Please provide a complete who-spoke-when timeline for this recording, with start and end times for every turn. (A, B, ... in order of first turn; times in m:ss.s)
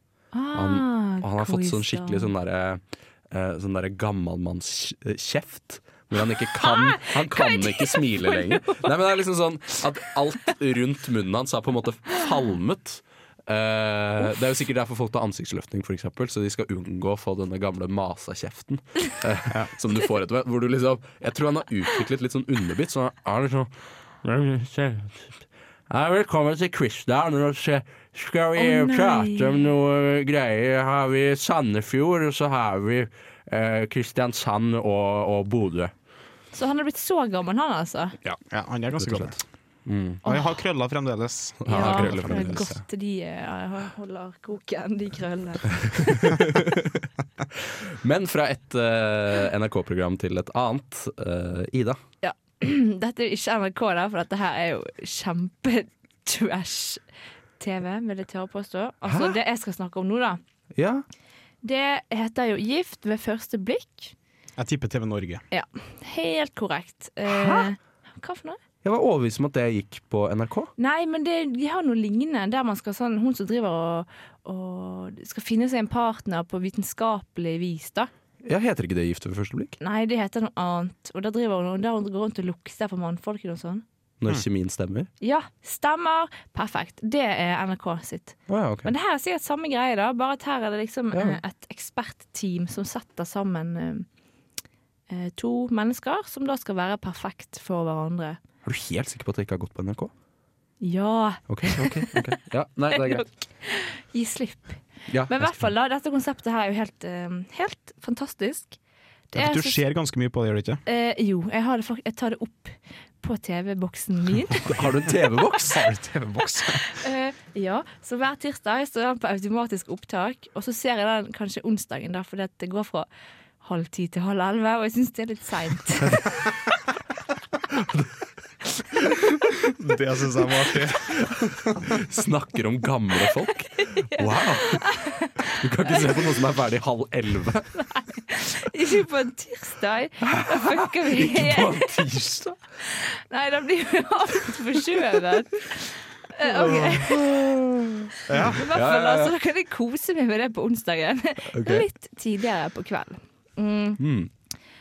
0:00.3-0:02.3 A
0:00.5-0:23.7 B
0:06.6-0:08.8 A
0:24.2-0:25.3 B
0:25.9-0:35.9 B
0:28.6-0:29.6 A
0:36.5-0:38.2 A
0:38.5-0:39.4 C
0:39.0-0:39.3 B
0:39.8-0:40.2 B
0:40.2-0:40.5 A
0:40.2-0:42.8 C
0:41.6-0:42.7 B
0:41.7-0:46.4 A
0:46.1-0:47.0 B
0:47.6-0:52.0 B
0:52.2-0:57.0 A
0:57.6-1:00.4 A
0:59.1-0:59.3 B
1:00.7-1:01.0 B
1:01.6-1:04.1 A
1:04.6-1:05.4 C
1:05.5-1:08.6 A
1:07.3-1:07.7 B
1:08.8-1:10.7 B
1:10.8-1:18.1 A
1:18.4-1:19.8 B
1:19.8-1:23.8 A
1:24.2-1:25.1 B
1:25.2-1:34.1 A
1:28.5-1:28.9 B
1:31.1-1:31.4 B
1:35.1-1:38.4 A
1:38.6-1:40.1 B
1:40.8-1:42.2 A
1:41.5-1:43.3 B
1:42.9-1:48.8 A
1:45.1-1:45.7 B
1:49.3-1:49.8 A
1:49.3-1:50.8 C
1:50.8-1:54.7 A
1:54.6-1:55.9 B
1:55.6-1:56.9 C
1:56.8-2:03.1 A
2:03.6-2:06.3 A
2:07.7-2:08.1 B
2:09.6-2:11.8 C
2:11.0-2:14.9 B
2:13.8-2:16.2 A
2:15.5-2:17.7 B
2:17.8-2:22.0 A
2:20.2-2:22.6 B
2:22.8-2:27.3 A
2:26.4-2:29.3 B
2:28.3-2:28.6 C
2:28.4-2:34.0 A
2:31.5-2:31.8 B
2:34.0-2:34.3 B